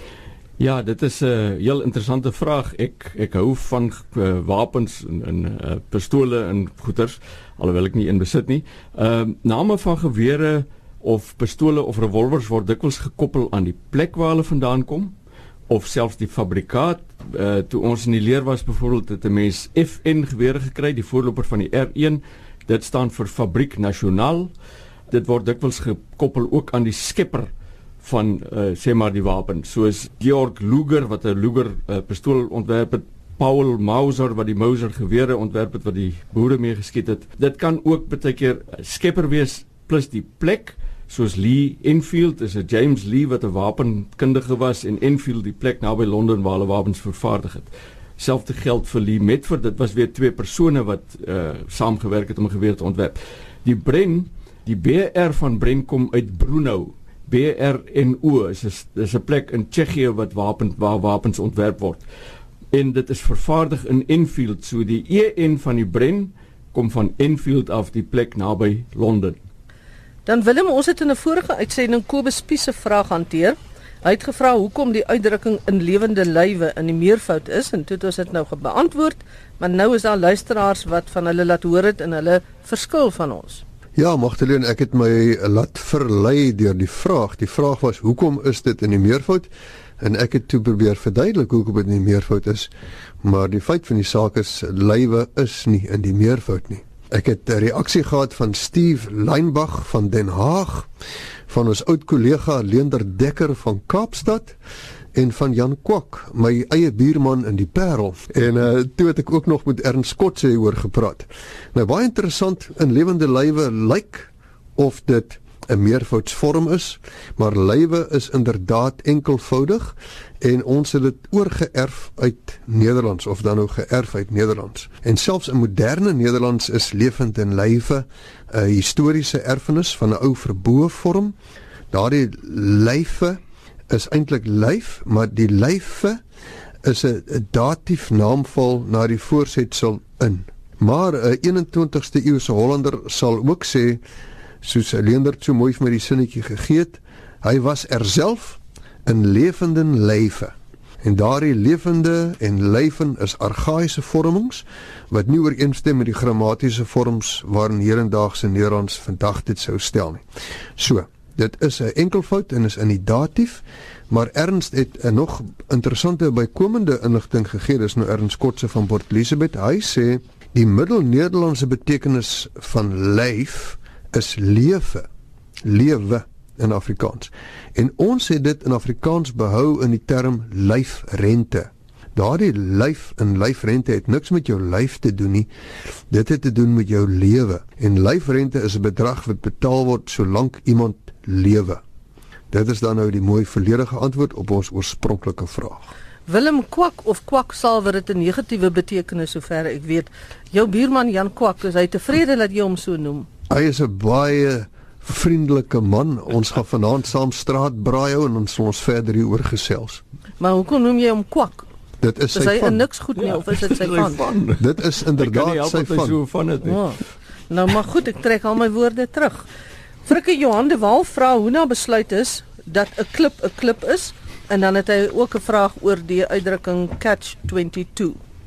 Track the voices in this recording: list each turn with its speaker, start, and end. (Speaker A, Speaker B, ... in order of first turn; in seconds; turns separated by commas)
Speaker A: 0.6-15.1, Speaker A: 15.7-24.5, Speaker A: 25.1-27.5, Speaker A: 28.0-62.0, Speaker A: 62.7-69.4, Speaker B: 70.3-83.6, Speaker C: 84.0-89.5, Speaker C: 90.0-92.7, Speaker C: 93.2-100.9, Speaker C: 101.5-104.6, Speaker C: 105.1-131.3, Speaker C: 131.9-136.2, Speaker C: 136.8-144.0, Speaker C: 144.6-160.2, Speaker C: 160.8-175.1, Speaker C: 175.7-185.5, Speaker C: 186.1-191.8, Speaker C: 192.5-195.9, Speaker B: 196.3-203.3, Speaker C: 203.5-210.0, Speaker B: 210.4-211.7, Speaker C: 212.0-212.9, Speaker B: 212.3-214.2, Speaker A: 213.2-216.9, Speaker C: 214.6-216.2, Speaker B: 216.7-217.0, Speaker B: 217.5-219.5, Speaker B: 220.1-228.2